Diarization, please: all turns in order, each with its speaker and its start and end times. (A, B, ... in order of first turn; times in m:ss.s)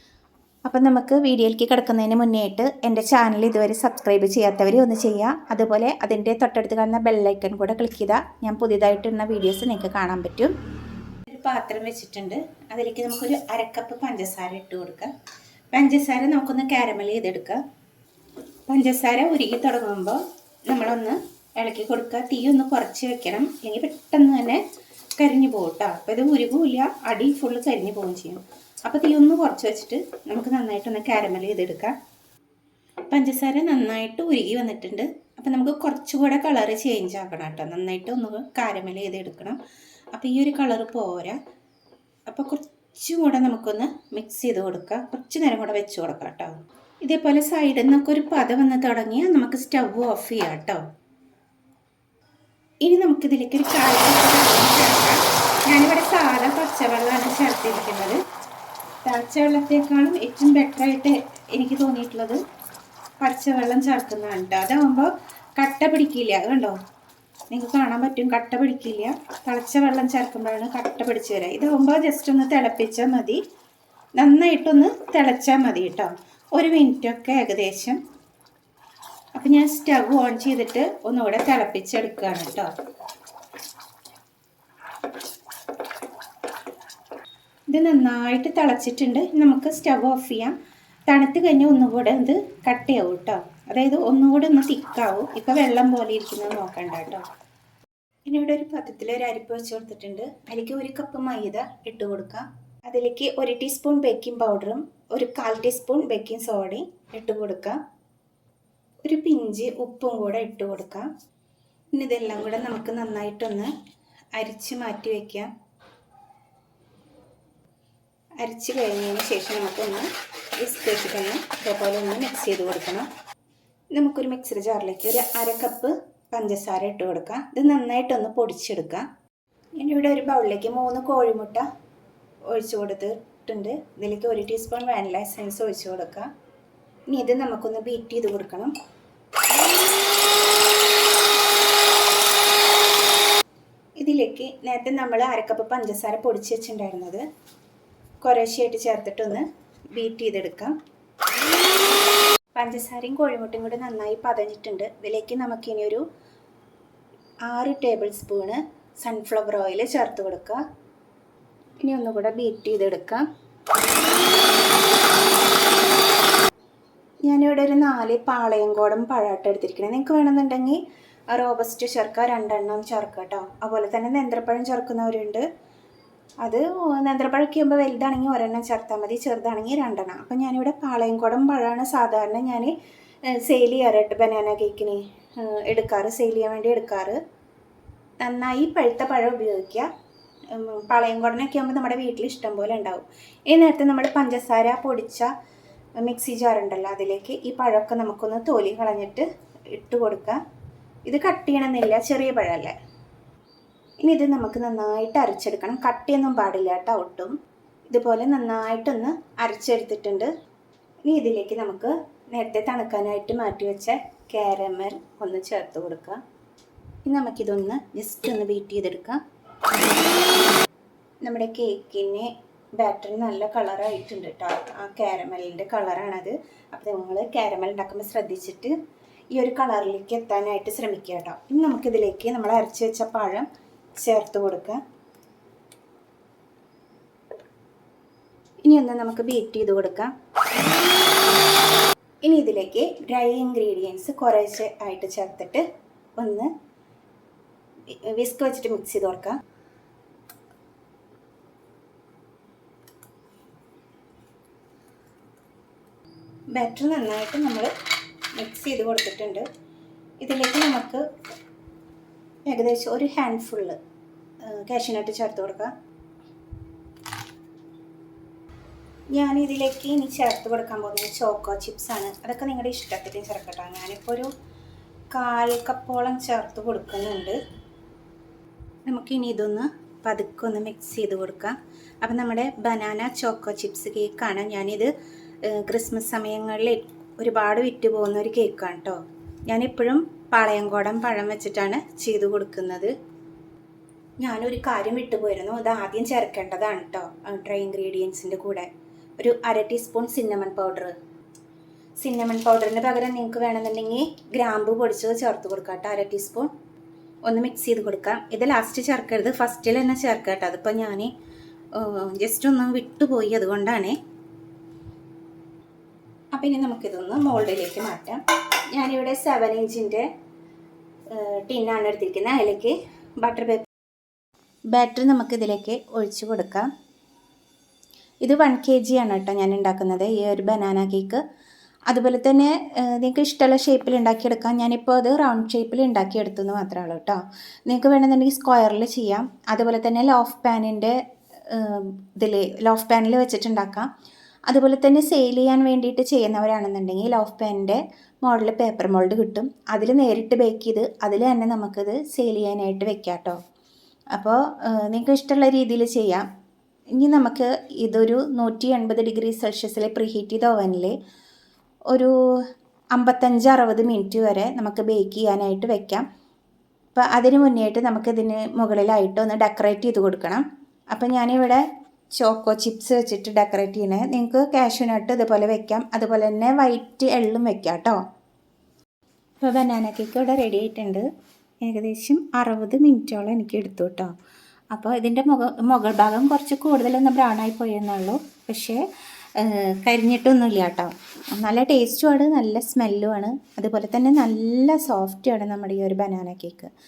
0:00.7-0:10.5 A
0:11.3-0:15.1 A
0:15.7-0:17.6 A
0:18.7-0:24.6 A
0:25.2-0:32.0 A
0:33.1-0:39.6 A
0:40.1-0:41.4 A
0:42.3-0:50.8 A
0:52.8-0:58.2 A
0:59.0-1:02.4 A
1:03.2-1:06.8 A
1:07.5-1:13.4 A
1:14.2-1:18.0 A
1:19.4-1:22.7 A
1:27.7-1:30.6 A
1:31.1-1:37.3 A
1:38.3-1:47.8 A
1:49.0-1:51.1 A
1:52.0-1:53.7 A
1:54.4-1:55.5 A
1:58.4-2:03.1 A
2:03.9-2:09.1 A
2:09.8-2:11.7 A
2:12.5-2:16.3 A
2:17.1-2:18.7 A
2:24.0-2:27.2 A
2:28.2-2:30.8 A
2:32.6-2:36.0 A
2:37.5-2:40.6 A
2:41.8-2:43.3 A
2:47.2-2:55.4 A
2:56.4-3:02.7 A
3:03.3-3:07.2 A
3:08.2-3:09.9 A
3:10.5-3:15.3 A
3:16.0-3:20.4 A
3:21.1-3:22.7 A
3:24.0-3:27.4 A
3:27.9-3:30.3 A
3:31.1-3:36.2 A
3:37.1-3:39.2 A
3:41.2-3:48.8 A
3:49.3-3:54.8 A
3:58.6-4:00.1 A
4:02.2-4:05.6 A
4:06.2-4:06.5 A
4:07.9-4:09.4 A
4:16.5-4:17.7 A
4:18.4-4:19.4 A
4:20.2-4:21.0 A
4:22.5-4:23.8 A
4:24.4-4:25.7 A
4:29.1-4:34.3 A
4:35.1-4:37.4 A
4:38.9-4:44.9 A
4:45.4-4:52.9 A
4:54.2-5:01.0 A
5:02.0-5:06.5 A
5:07.3-5:11.1 A
5:11.7-5:14.0 A
5:16.3-5:20.1 A
5:21.1-5:23.7 A
5:24.7-5:26.7 A
5:28.2-5:31.2 A
5:31.9-5:43.9 A
5:44.5-5:53.4 A
5:54.1-5:56.3 A
5:57.0-6:01.0 A
6:01.9-6:06.1 A
6:07.0-6:11.6 A
6:12.2-6:18.0 A
6:19.4-6:21.1 A
6:21.6-6:24.1 A
6:24.7-6:28.8 A
6:29.4-6:36.7 A